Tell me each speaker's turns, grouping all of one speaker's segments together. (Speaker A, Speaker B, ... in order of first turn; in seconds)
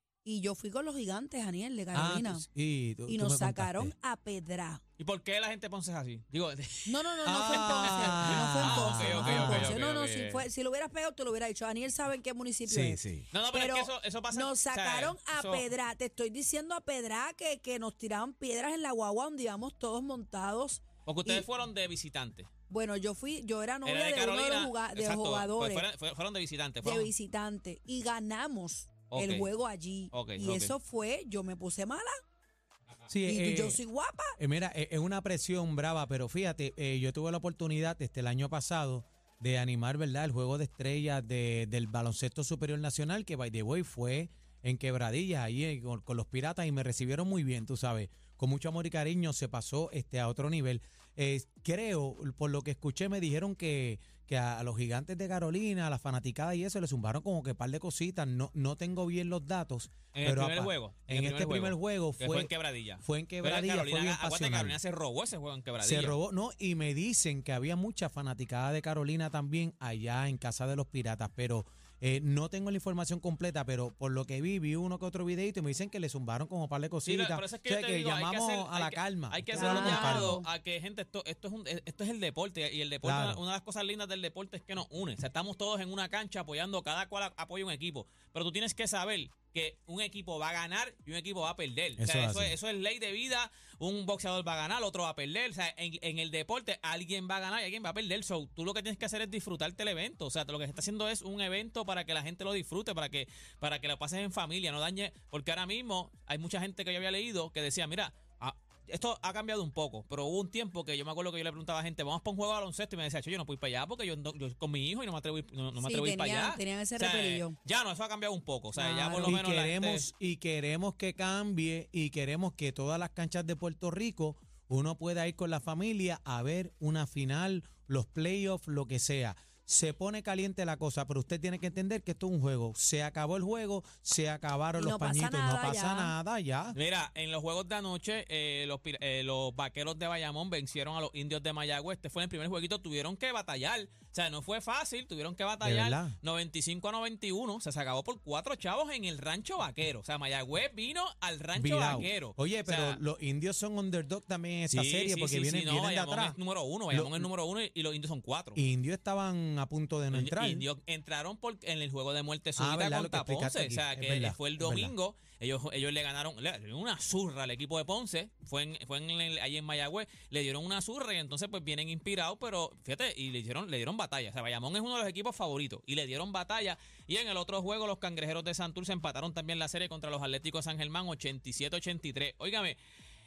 Speaker A: 0.2-2.5, 3.1-4.8, 6.9-21.4, 22.7-25.8, 26.8-32.1, 33.2-34.3, 79.5-80.5, 115.8-117.5, 118.8-119.4, 134.7-136.2
Speaker B: 1.9-3.9, 7.2-9.7, 12.7-13.2, 33.1-33.8, 34.4-64.8, 65.8-80.4, 83.0-83.4, 92.0-92.5, 119.2-136.8, 145.6-146.2, 151.5-156.4, 156.9-157.3, 158.5-160.7, 162.6-164.9
Speaker C: 5.0-10.4, 13.3-15.7, 21.1-22.5, 23.8-27.1, 29.1-29.5, 30.1-30.8, 60.1-66.2, 77.0-120.1, 136.7-153.0, 154.7-158.6, 160.1-182.8